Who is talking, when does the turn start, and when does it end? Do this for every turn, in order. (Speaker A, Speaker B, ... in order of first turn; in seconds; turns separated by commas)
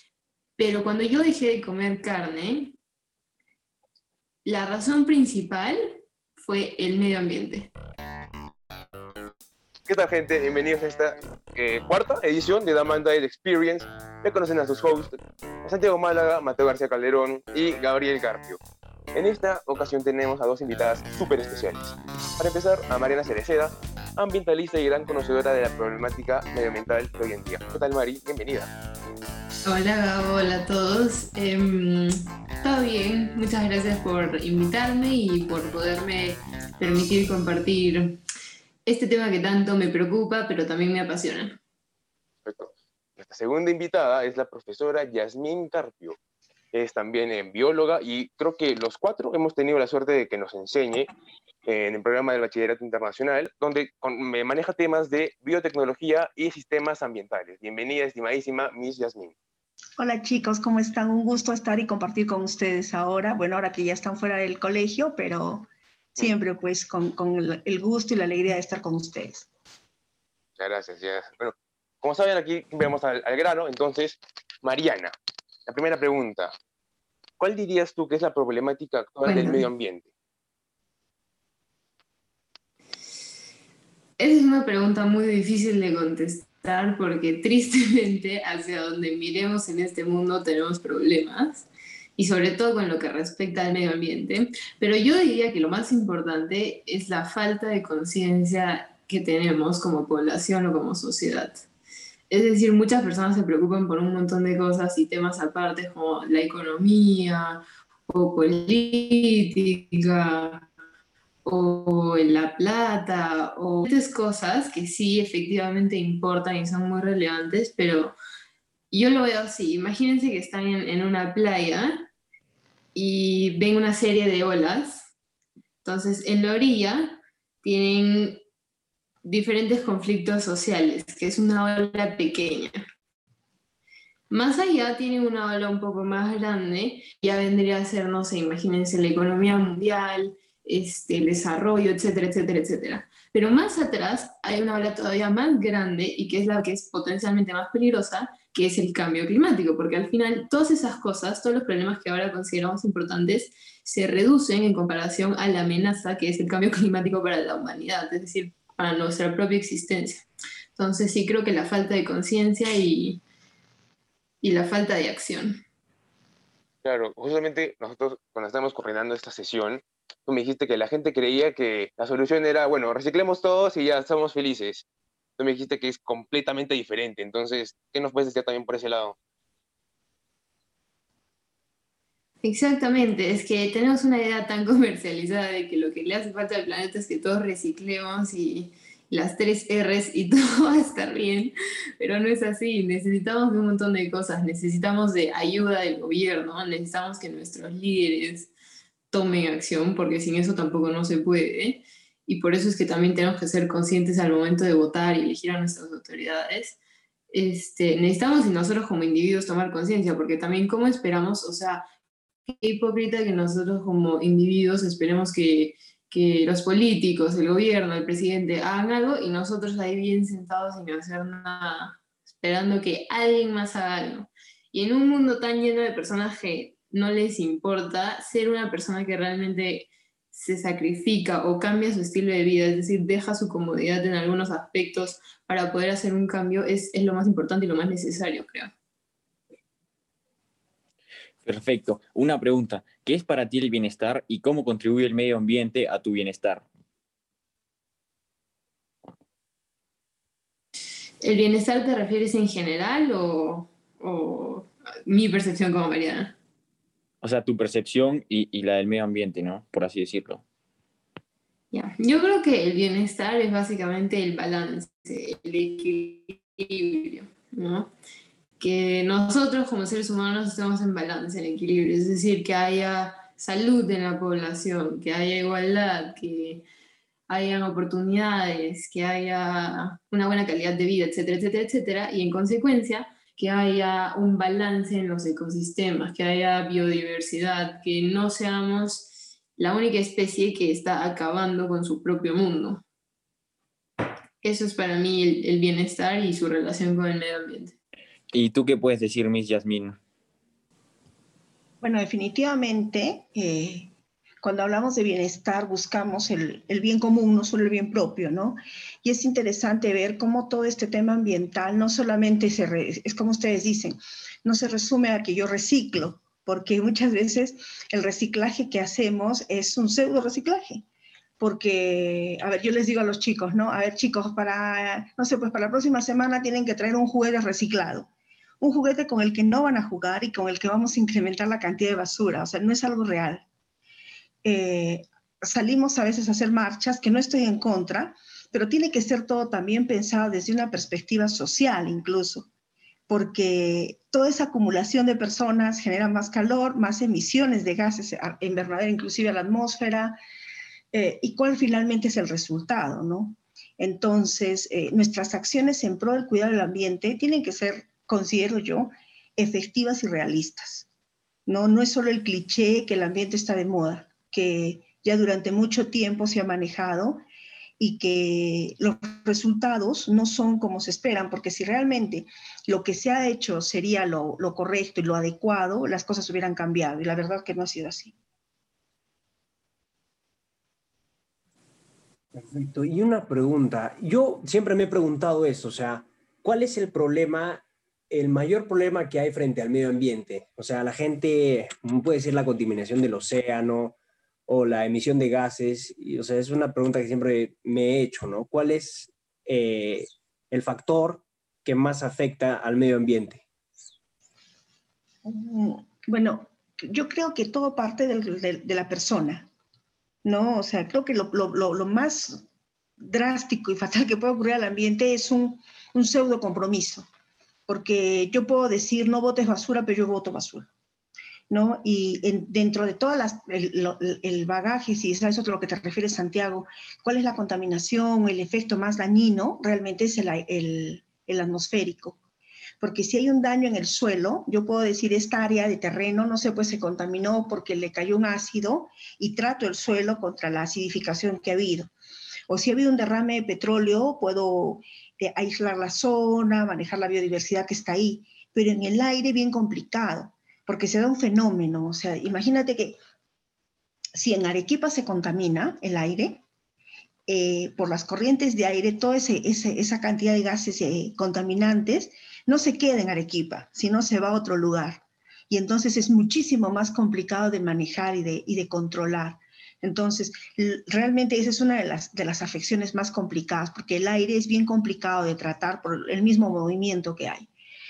Speaker A: 0.6-2.8, Speaker A: 4.4-7.7, Speaker B: 9.9-18.6, Speaker B: 19.1-28.7, Speaker A: 29.6-38.2, Speaker A: 38.9-41.6, Speaker B: 42.4-46.2, Speaker B: 46.7-51.1, Speaker B: 51.6-59.3, Speaker C: 60.0-69.5, Speaker B: 70.6-75.1, Speaker B: 75.7-76.5, Speaker B: 77.4-80.1, Speaker A: 79.2-79.7, Speaker A: 84.2-91.7, Speaker A: 92.2-101.6, Speaker A: 102.3-110.7, Speaker A: 111.4-118.1, Speaker A: 118.9-122.1, Speaker A: 122.9-125.1, Speaker A: 125.8-128.4, Speaker A: 129.2-132.8, Speaker A: 134.3-163.2, Speaker A: 164.4-165.6, Speaker B: 166.8-174.8, Speaker B: 175.4-179.2, Speaker A: 182.4-198.5, Speaker A: 199.1-206.8, Speaker A: 207.3-211.8, Speaker A: 212.5-238.7, Speaker D: 241.4-246.6, Speaker A: 251.2-256.3, Speaker D: 257.2-260.4, Speaker A: 261.7-267.9, Speaker A: 268.6-276.6, Speaker A: 277.3-292.8, Speaker A: 294.4-297.8, Speaker D: 298.3-300.0, Speaker C: 301.8-303.9, Speaker C: 304.4-320.8, Speaker C: 321.4-328.1, Speaker C: 328.6-333.4, Speaker C: 334.4-342.5, Speaker C: 343.1-350.1, Speaker C: 350.9-360.9, Speaker C: 361.4-367.2, Speaker C: 367.8-378.1, Speaker E: 382.4-393.9, Speaker E: 394.5-403.4, Speaker C: 405.2-409.5, Speaker C: 410.2-412.4, Speaker C: 413.0-417.1, Speaker C: 417.7-420.7, Speaker C: 421.5-432.2, Speaker C: 432.8-441.9, Speaker C: 442.5-453.0, Speaker C: 454.1-456.4, Speaker C: 457.3-477.5